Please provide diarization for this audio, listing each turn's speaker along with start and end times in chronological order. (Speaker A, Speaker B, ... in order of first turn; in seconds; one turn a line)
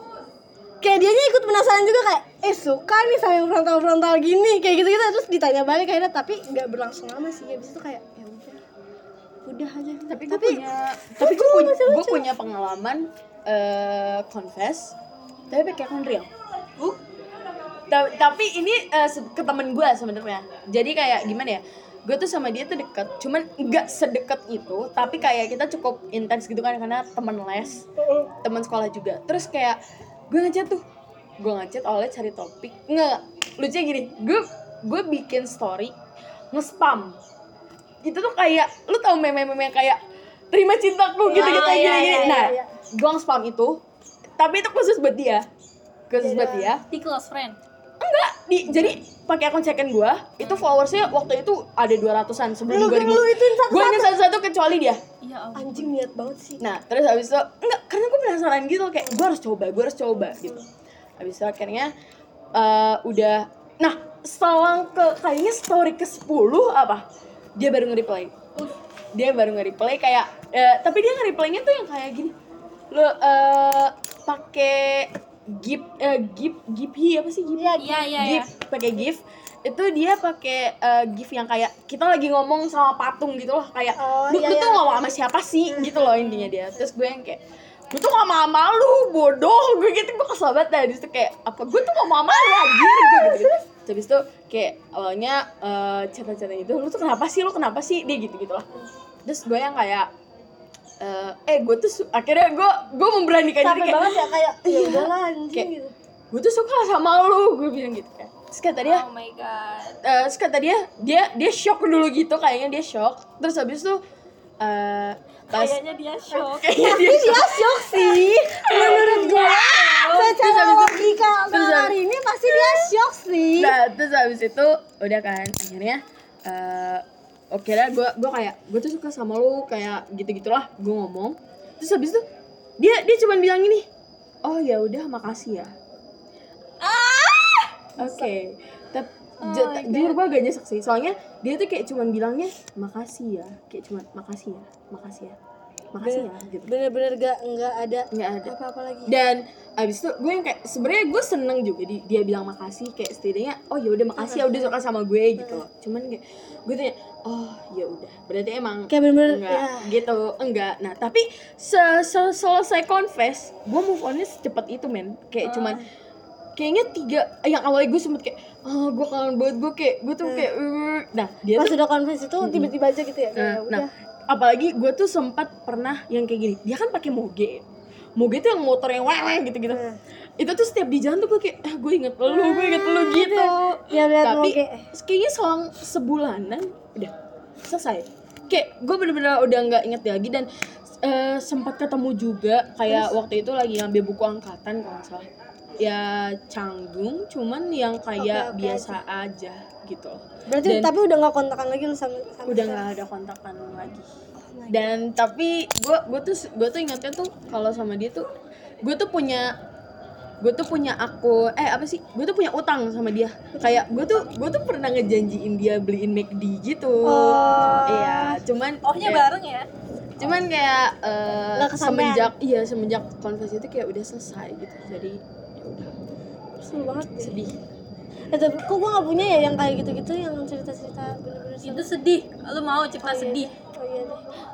Speaker A: 0.8-8.6
Speaker A: 9.4-10.6
Speaker B: 10.1-14.9
Speaker A: 11.2-12.2
Speaker B: 15.5-16.3
Speaker B: 17.9-27.9
Speaker A: 27.9-28.3
Speaker B: 28.4-29.8
Speaker B: 30.3-30.8
Speaker B: 31.4-35.9
Speaker B: 36.5-37.2
Speaker B: 38.0-43.8
Speaker A: 41.2-42.7
Speaker C: 41.3-42.5
Speaker B: 44.4-45.5
Speaker B: 46.1-46.8
Speaker A: 46.2-46.8
Speaker C: 46.9-47.6
Speaker B: 48.0-55.0
Speaker C: 50.4-50.7
Speaker A: 52.7-54.2
Speaker C: 55.2-55.9
Speaker A: 55.5-56.6
Speaker B: 56.6-60.6
Speaker A: 60.2-60.6
Speaker B: 61.2-61.9
Speaker B: 62.5-67.0
Speaker B: 67.6-68.3
Speaker B: 69.1-72.3
Speaker B: 72.9-87.4
Speaker A: 77.5-78.2
Speaker C: 77.8-78.5
Speaker A: 84.0-85.1
Speaker A: 85.7-86.4
Speaker B: 87.9-98.6
Speaker A: 92.6-93.5
Speaker B: 99.2-100.1
Speaker B: 101.0-105.7
Speaker A: 103.6-105.9
Speaker B: 106.3-109.0
Speaker C: 108.8-110.0
Speaker B: 110.0-114.0
Speaker B: 114.6-115.8
Speaker C: 115.5-116.7
Speaker B: 116.3-119.4
Speaker A: 116.7-123.8
Speaker C: 118.9-120.4
Speaker B: 120.2-122.8
Speaker B: 123.6-132.2
Speaker B: 132.8-133.9
Speaker B: 134.4-135.7
Speaker C: 136.8-137.7
Speaker A: 138.0-138.3
Speaker B: 138.0-145.4
Speaker A: 139.5-140.1
Speaker B: 145.9-146.7
Speaker A: 146.0-149.1
Speaker B: 148.1-148.5
Speaker B: 149.1-165.8
Speaker A: 154.2-154.8
Speaker A: 158.9-159.9
Speaker A: 165.4-165.8
Speaker B: 166.6-171.8
Speaker A: 171.6-173.9
Speaker B: 172.4-172.7
Speaker B: 173.3-177.6
Speaker B: 178.2-179.8
Speaker A: 179.7-180.0
Speaker B: 180.4-187.1
Speaker A: 182.3-184.8
Speaker B: 187.6-190.5
Speaker B: 191.0-195.2
Speaker B: 195.8-200.9
Speaker A: 198.2-199.0
Speaker A: 200.5-202.9
Speaker B: 202.4-204.1
Speaker A: 204.3-205.0
Speaker B: 204.7-208.2
Speaker B: 208.8-209.5
Speaker B: 210.4-219.3
Speaker A: 213.5-214.2
Speaker A: 217.0-218.4
Speaker C: 218.8-219.7
Speaker B: 220.2-225.9
Speaker A: 221.5-222.3
Speaker A: 226.6-227.4
Speaker B: 227.2-227.5
Speaker A: 228.3-231.9
Speaker C: 231.6-233.5
Speaker A: 233.0-234.2